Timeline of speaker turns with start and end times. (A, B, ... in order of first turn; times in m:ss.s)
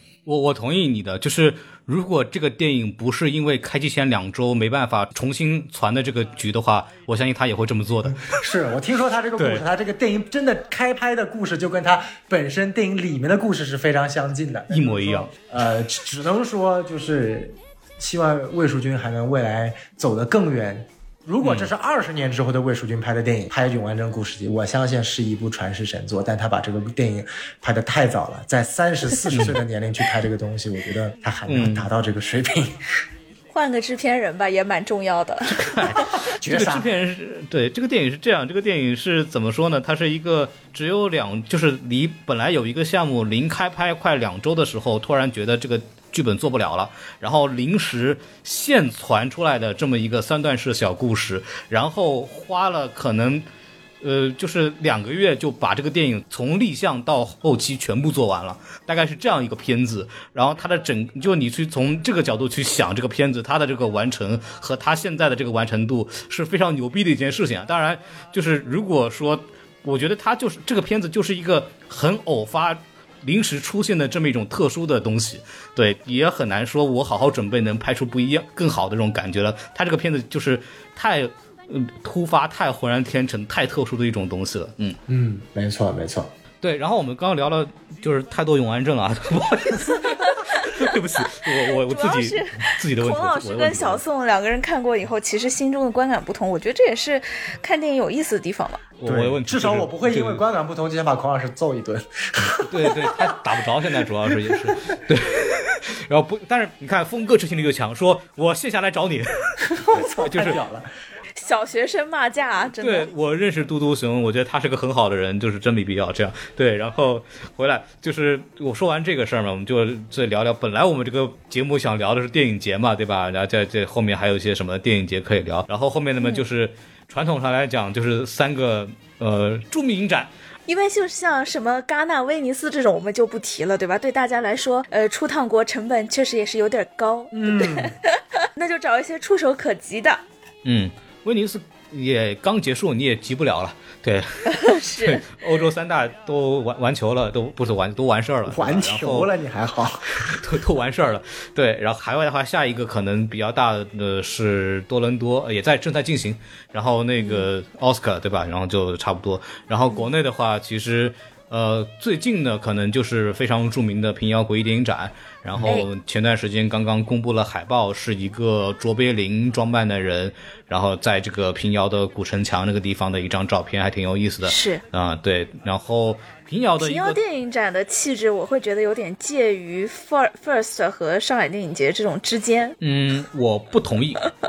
0:00.3-0:08.4 A
0:08.2-0:32.8 B
0:09.4-0:09.6 A
0:14.7-0:15.3 A
0:21.4-0:21.7 A
0:29.3-0:29.6 A
0:31.5-0:31.9 A
0:33.5-0:35.8 C
0:35.5-0:53.5 A
0:36.2-0:36.9 B
0:54.0-1:25.0 A
1:25.1-1:26.3 B
1:26.6-1:34.0 A
1:30.0-1:38.8 C
1:39.0-1:40.4 A
1:39.1-1:43.4 B
1:42.7-1:50.6 A
1:44.2-1:44.8 B
1:49.7-1:50.9 B
1:51.4-1:53.1 C
1:52.8-2:10.3 A
2:10.7-2:20.2 C
2:17.3-2:18.0 B
2:20.6-2:29.3 A
2:24.6-2:25.2 C
2:28.5-2:30.4 B
2:30.2-2:57.2 A
2:37.2-2:37.5 C
2:45.5-2:45.8 B
2:54.4-2:54.8 C
2:56.8-3:02.8 C
3:02.8-3:04.2 A